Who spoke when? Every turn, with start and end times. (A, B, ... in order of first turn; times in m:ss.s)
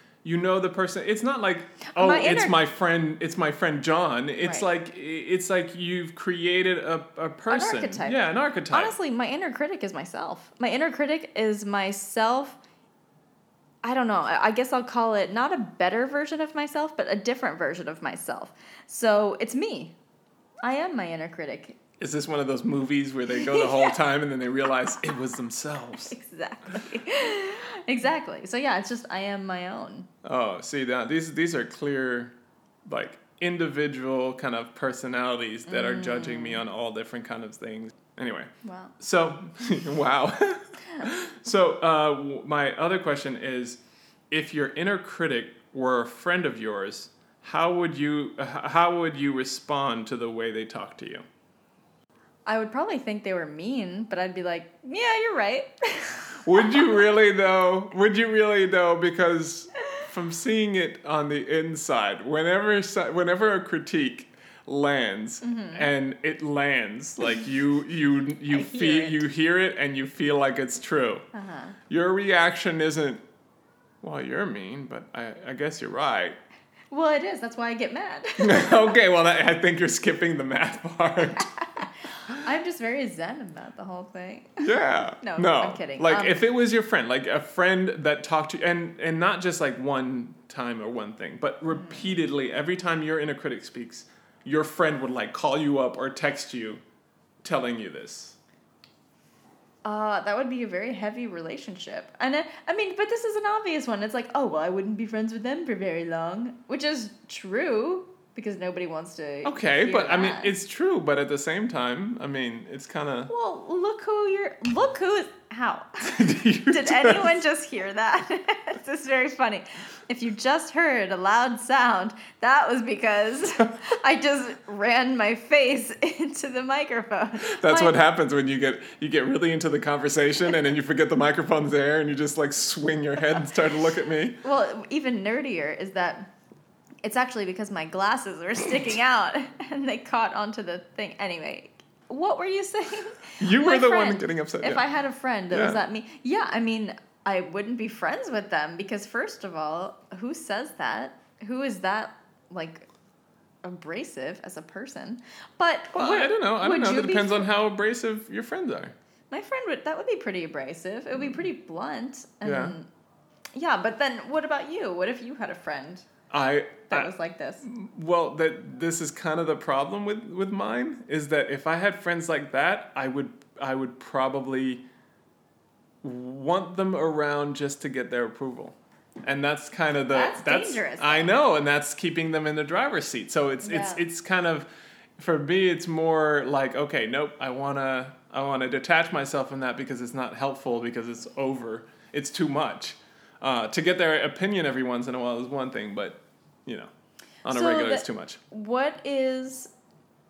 0:00.2-0:09.0 A
0:01.9-0:02.6 B
0:07.5-0:12.6 B
0:13.8-0:20.0 B
0:20.6-0:21.8 B
0:22.0-0:26.1 A
0:23.3-0:24.0 B
0:26.1-0:30.1 B
0:30.2-0:51.2 A
0:35.7-0:36.6 B
0:38.6-0:38.9 B
0:52.5-0:57.0 B
0:56.4-1:11.3 A
1:05.4-1:05.9 B
1:08.5-1:09.2 B
1:11.3-1:11.8 B
1:11.9-1:13.2 A
1:14.0-1:16.4 A
1:16.9-1:18.8 B
1:18.4-1:21.9 A
1:21.4-1:26.4 B
1:24.6-1:36.8 A
1:31.7-1:32.2 B
1:37.4-1:38.4 A
1:39.8-1:50.5 B
1:49.4-1:53.3 A
1:53.3-2:08.0 B
1:56.0-1:57.4 A
2:07.4-2:14.4 A
2:14.4-2:16.3 B
2:17.0-2:32.9 B
2:23.4-2:24.8 A
2:25.5-2:25.8 A
2:33.6-2:37.5 B
2:35.9-2:39.0 A
2:39.3-2:42.9 B
2:42.4-2:42.8 A
2:43.6-2:46.1 B
2:46.3-2:54.8 A
2:46.9-2:47.6 B
2:56.0-3:04.7 A
3:00.1-3:01.4 B
3:03.6-3:04.0 B
3:05.2-3:16.9 A
3:17.4-3:18.4 A
3:17.5-3:19.7 B